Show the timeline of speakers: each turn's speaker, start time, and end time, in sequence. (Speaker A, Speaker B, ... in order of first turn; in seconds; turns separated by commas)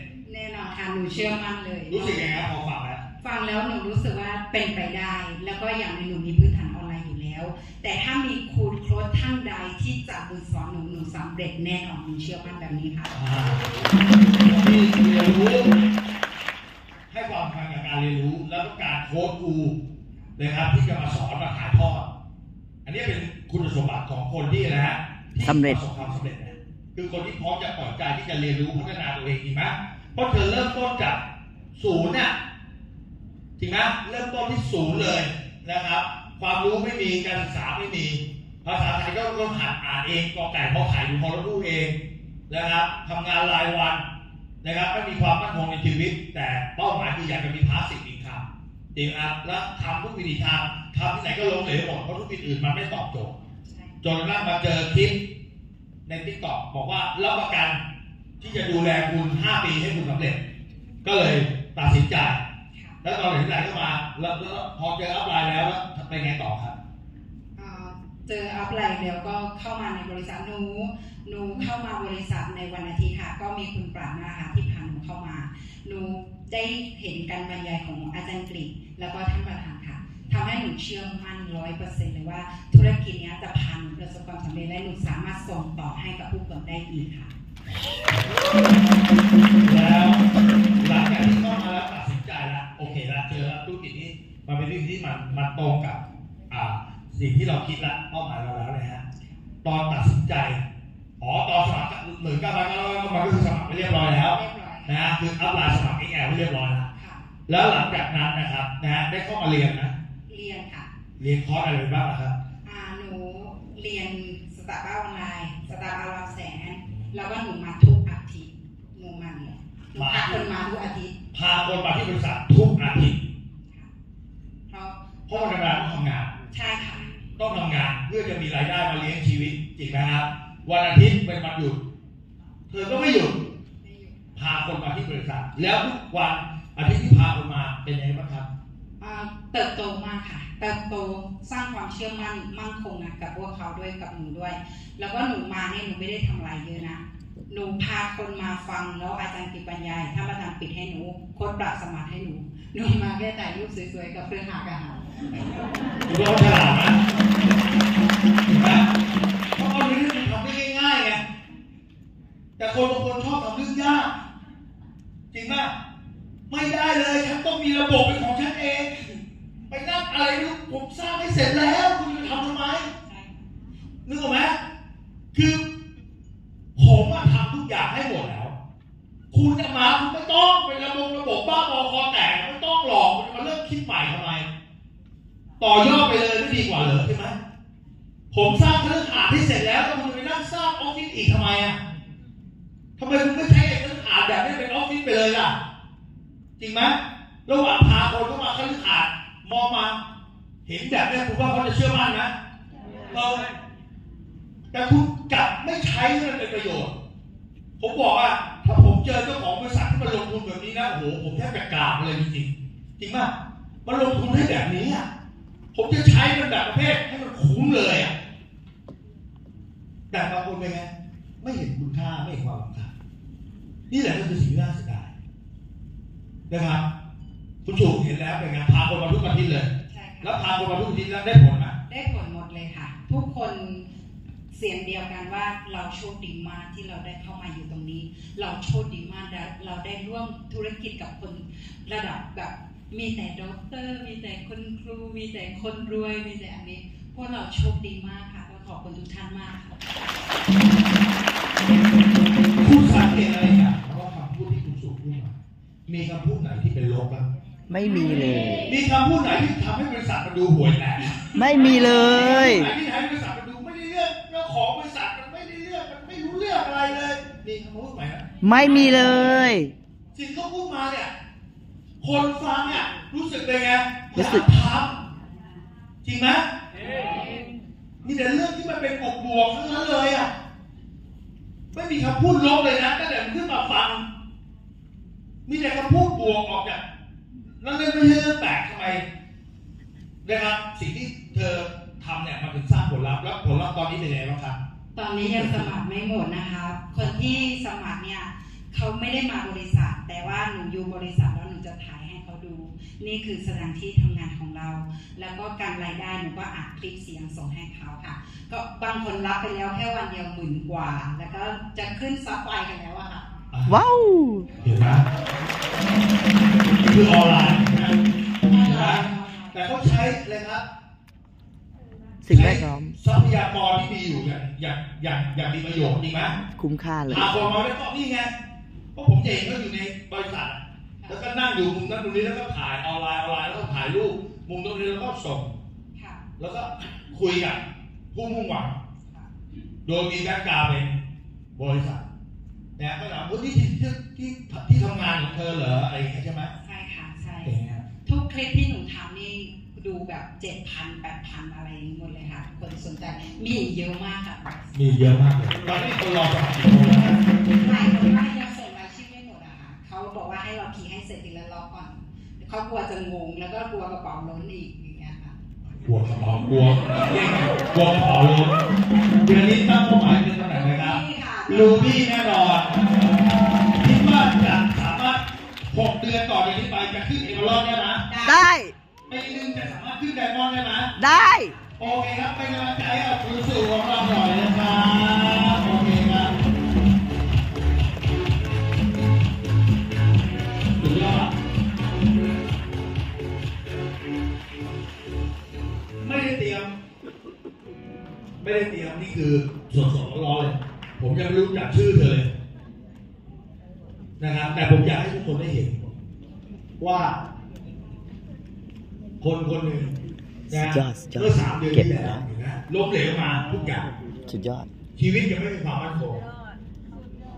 Speaker A: 0.2-2.4, Speaker B: 1.9-3.0, Speaker A: 3.2-13.1, Speaker B: 13.1-15.7, Speaker B: 17.1-19.7, Speaker B: 20.4-22.1, Speaker B: 22.8-31.2, Speaker C: 25.4-25.8, Speaker B: 31.7-32.3, Speaker B: 33.6-41.9, Speaker B: 42.5-44.0, Speaker B: 44.6-53.3, Speaker A: 53.6-54.0, Speaker B: 54.0-55.2, Speaker B: 56.0-57.8, Speaker B: 58.4-60.4, Speaker B: 61.0-62.4, Speaker A: 62.7-63.0, Speaker B: 63.0-66.7, Speaker A: 67.5-87.3, Speaker B: 87.7-88.2, Speaker B: 89.6-90.2, Speaker B: 90.8-99.0, Speaker B: 99.6-100.6, Speaker B: 101.2-106.9, Speaker A: 104.2-105.1, Speaker A: 106.9-107.3, Speaker B: 107.5-109.9, Speaker A: 110.3-110.9, Speaker B: 111.2-112.3, Speaker A: 112.6-121.1, Speaker B: 116.8-117.2, Speaker B: 120.0-120.5, Speaker B: 121.3-123.2, Speaker A: 123.6-123.9, Speaker A: 124.7-125.8, Speaker B: 125.3-126.3, Speaker A: 126.5-127.2, Speaker B: 127.4-131.8, Speaker B: 132.7-133.3, Speaker A: 133.8-134.2, Speaker B: 134.3-138.4, Speaker A: 139.0-155.0, Speaker B: 156.1-157.0, Speaker B: 158.5-158.9, Speaker B: 159.6-161.2, Speaker B: 162.6-164.1, Speaker B: 165.3-165.7, Speaker B: 166.5-169.2, Speaker B: 169.7-172.9, Speaker A: 172.8-173.5, Speaker B: 174.1-174.6, Speaker B: 175.3-175.6, Speaker B: 176.8-178.5, Speaker B: 179.3-184.4, Speaker B: 185.6-187.3, Speaker B: 188.3-191.8, Speaker B: 193.0-195.5, Speaker B: 196.6-200.0, Speaker B: 200.7-202.3, Speaker B: 203.1-203.4, Speaker B: 204.7-206.9, Speaker B: 207.8-213.3, Speaker B: 213.8-215.1, Speaker B: 215.7-218.1, Speaker B: 220.1-220.9, Speaker B: 221.4-222.9, Speaker B: 223.9-225.1, Speaker B: 226.5-226.8, Speaker B: 227.6-229.7, Speaker A: 229.9-230.5, Speaker B: 230.2-231.7, Speaker A: 231.9-233.9, Speaker A: 234.5-249.8, Speaker B: 252.6-255.3, Speaker B: 255.8-257.2, Speaker C: 257.7-258.7, Speaker B: 258.6-261.3, Speaker C: 261.3-262.7, Speaker B: 261.9-268.2, Speaker C: 268.4-269.7, Speaker B: 270.1-271.1, Speaker B: 272.0-274.9, Speaker C: 274.1-274.5, Speaker B: 276.0-276.4, Speaker B: 278.0-280.3, Speaker B: 281.7-284.0, Speaker B: 285.4-286.8, Speaker B: 287.6-289.0, Speaker B: 290.2-294.6, Speaker A: 294.9-313.3, Speaker B: 295.2-295.7, Speaker B: 313.5-313.8, Speaker C: 313.7-314.5, Speaker B: 314.6-315.0, Speaker B: 316.8-318.0, Speaker A: 318.5-319.5, Speaker B: 318.6-320.6, Speaker C: 322.2-323.0, Speaker B: 322.3-326.4, Speaker C: 326.5-327.5, Speaker B: 327.1-328.3, Speaker B: 328.9-335.5, Speaker A: 335.9-336.2, Speaker B: 336.4-337.6, Speaker B: 338.1-338.8, Speaker B: 339.9-341.0, Speaker B: 341.6-342.0, Speaker B: 342.8-346.5, Speaker A: 346.6-355.0, Speaker B: 347.4-347.8, Speaker B: 354.7-357.2, Speaker A: 357.6-365.3, Speaker B: 365.7-368.5, Speaker B: 369.2-378.0, Speaker A: 370.5-372.0, Speaker A: 378.1-378.4, Speaker C: 378.2-378.7, Speaker B: 379.1-380.9, Speaker C: 381.0-381.6, Speaker B: 381.8-386.3, Speaker B: 390.8-391.3, Speaker B: 396.0-396.7, Speaker B: 398.4-402.3, Speaker B: 404.2-405.8, Speaker B: 406.8-407.2, Speaker B: 409.2-409.9, Speaker C: 410.5-412.2, Speaker B: 410.5-413.9, Speaker C: 414.3-414.7, Speaker B: 414.9-416.2